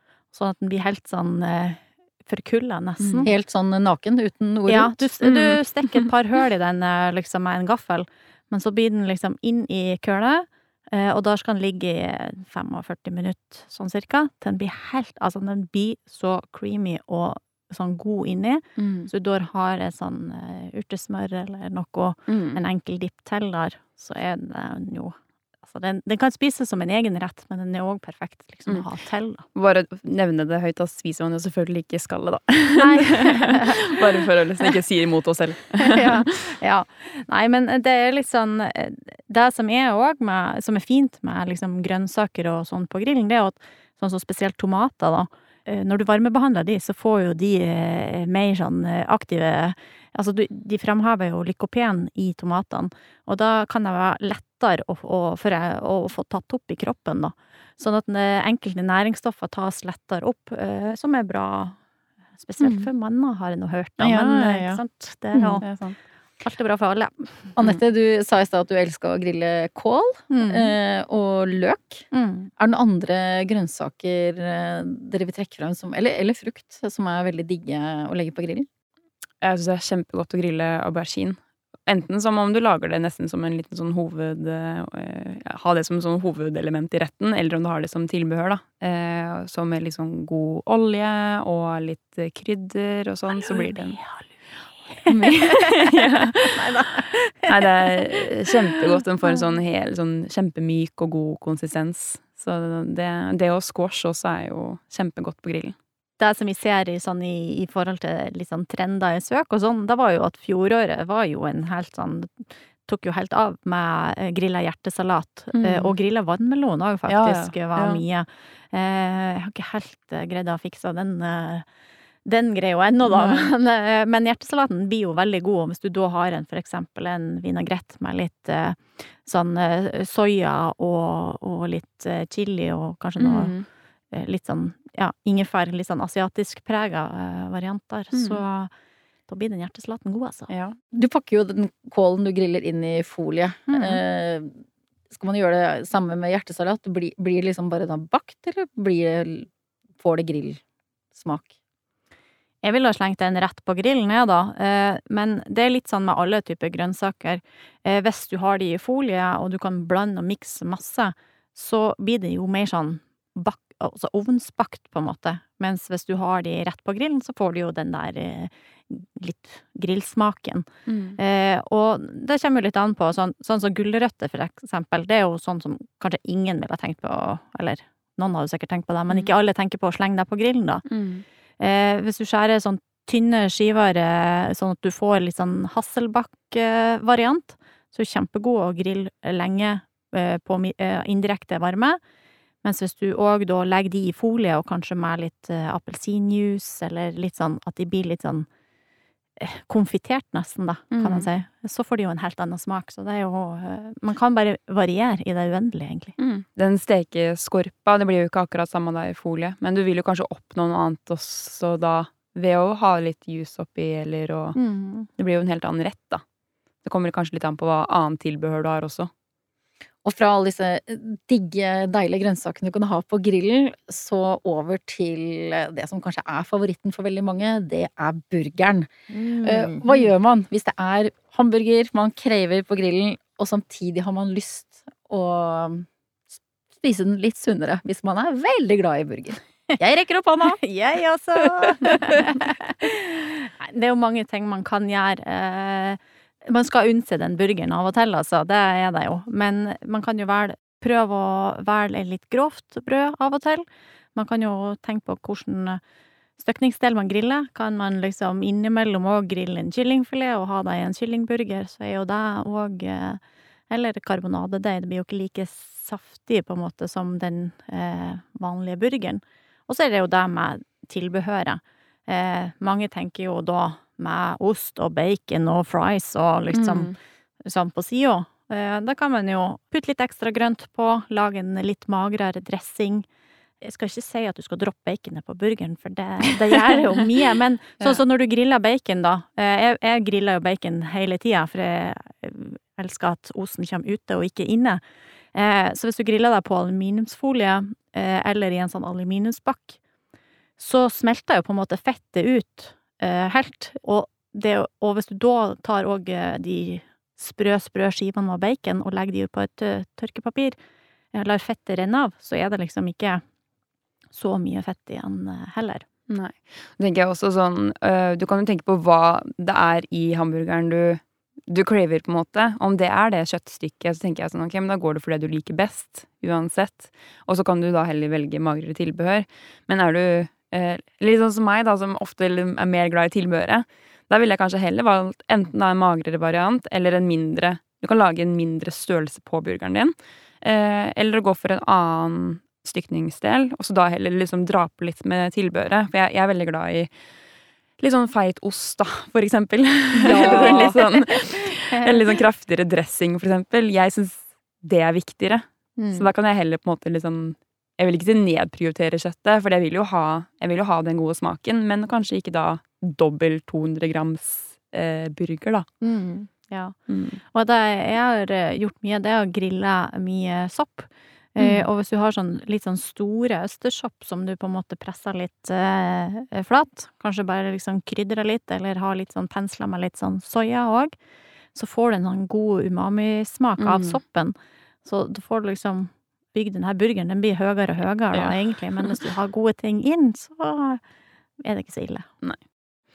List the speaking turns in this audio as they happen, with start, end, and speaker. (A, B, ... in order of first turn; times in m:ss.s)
0:00.3-0:03.3 A
0:03.0-0:03.3 B
0:03.2-0:05.0 C
0:04.7-0:29.4 A
0:05.2-0:06.1 B
0:18.8-0:19.1 B
0:22.3-0:22.6 B
0:29.5-0:36.4 B
0:32.8-0:34.0 A
0:35.8-1:01.8 A
1:02.4-1:05.6 A
1:02.6-1:02.9 B
1:04.0-1:04.8 B
1:05.6-1:06.0 B
1:06.4-1:07.6 A
1:07.6-1:12.1 C
1:10.3-1:10.8 A
1:12.1-1:12.5 A
1:12.6-1:18.7 C
1:19.4-1:34.0 B
1:33.3-1:34.3 A
1:34.9-1:38.5 A
1:35.0-1:36.7 B
1:37.4-1:45.8 B
1:46.2-2:01.6 A
1:55.5-1:55.9 B
1:57.1-1:58.0 B
2:02.2-2:13.5 A
2:03.1-2:03.5 B
2:13.2-2:13.7 B
2:14.1-2:18.7 A
2:18.1-2:18.4 B
2:19.3-2:20.5 A
2:20.5-2:20.8 B
2:20.9-2:30.6 C
2:23.7-2:24.0 A
2:31.1-2:31.5 C
2:32.6-2:50.7 A
2:50.9-2:51.2 B
2:51.2-3:00.8 A
3:00.9-3:01.2 B
3:01.6-3:12.0 A
3:12.6-3:18.5 A
3:19.4-3:26.1 A
3:20.9-3:21.3 B
3:26.2-3:34.6 B
3:34.6-3:35.1 A
3:35.2-3:36.2 B
3:36.8-3:39.1 B
3:40.0-3:55.9 C
3:49.1-3:49.8 A
3:56.7-4:00.6 C
4:00.4-4:15.8 A
4:16.4-4:36.9 A
4:36.5-4:36.9 B
4:37.4-4:43.1 A
4:43.6-4:54.8 A
4:55.3-4:59.8 A
5:00.6-5:10.6 A
5:11.1-5:13.2 A
5:14.1-5:15.8 A
5:16.1-5:46.9 B
5:47.8-6:05.7 B
5:50.0-5:50.8 C
5:50.0-5:52.1 A
5:55.8-5:56.1 A
6:05.8-6:06.8 A
6:06.9-6:07.2 B
6:07.3-6:20.9 A
6:11.4-6:11.7 B
6:21.6-6:30.8 A
6:23.6-6:24.0 B
6:28.1-6:29.0 B
6:31.4-6:32.1 A